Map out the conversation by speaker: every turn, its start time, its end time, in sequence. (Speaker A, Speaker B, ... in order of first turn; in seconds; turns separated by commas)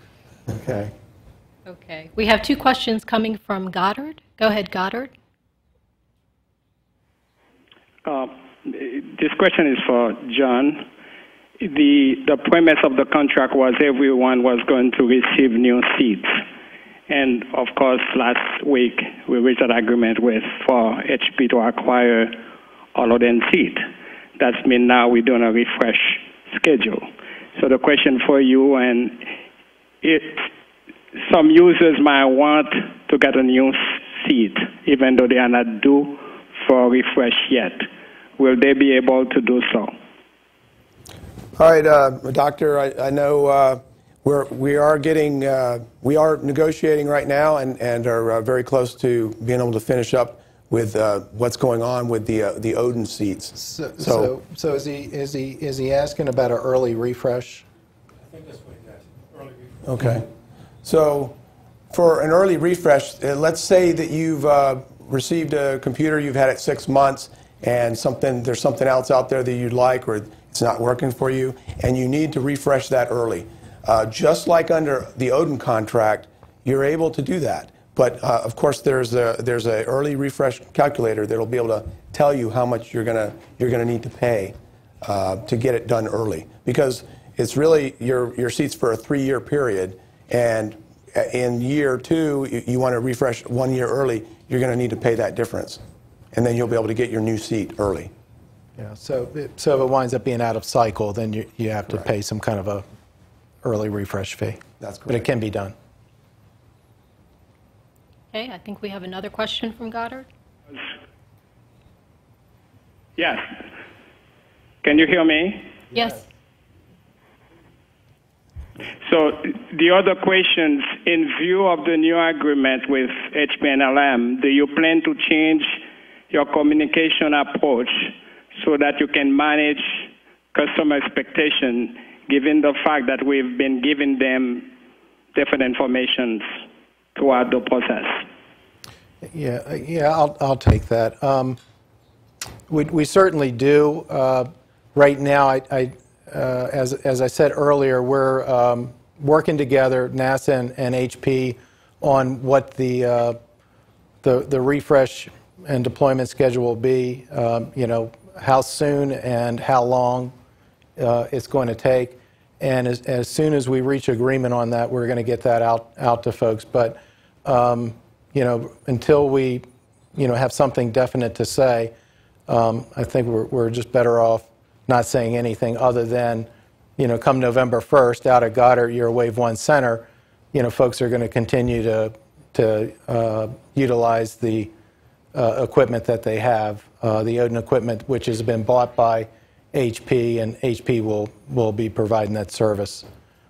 Speaker A: 0.5-0.9, Speaker B: 1.6-5.1, Speaker C: 8.0-10.9, Speaker C: 11.6-16.4, Speaker C: 17.1-22.4, Speaker C: 22.9-29.3, Speaker C: 30.0-30.5, Speaker C: 31.2-40.0, Speaker D: 41.5-54.3, Speaker A: 53.5-57.6, Speaker D: 59.8-60.2, Speaker D: 60.8-61.3, Speaker D: 61.9-95.8, Speaker D: 96.3-98.1, Speaker A: 98.8-102.8, Speaker A: 103.6-105.7, Speaker D: 104.8-105.3, Speaker B: 108.3-110.3, Speaker C: 113.2-113.7, Speaker C: 114.8-115.7, Speaker B: 115.9-116.2, Speaker C: 119.0-134.7, Speaker C: 135.3-136.6, Speaker C: 137.2-138.2, Speaker A: 139.2-141.6, Speaker A: 142.7-153.4, Speaker A: 154.2-160.3, Speaker A: 161.0-171.9, Speaker A: 172.5-184.7, Speaker A: 185.3-193.1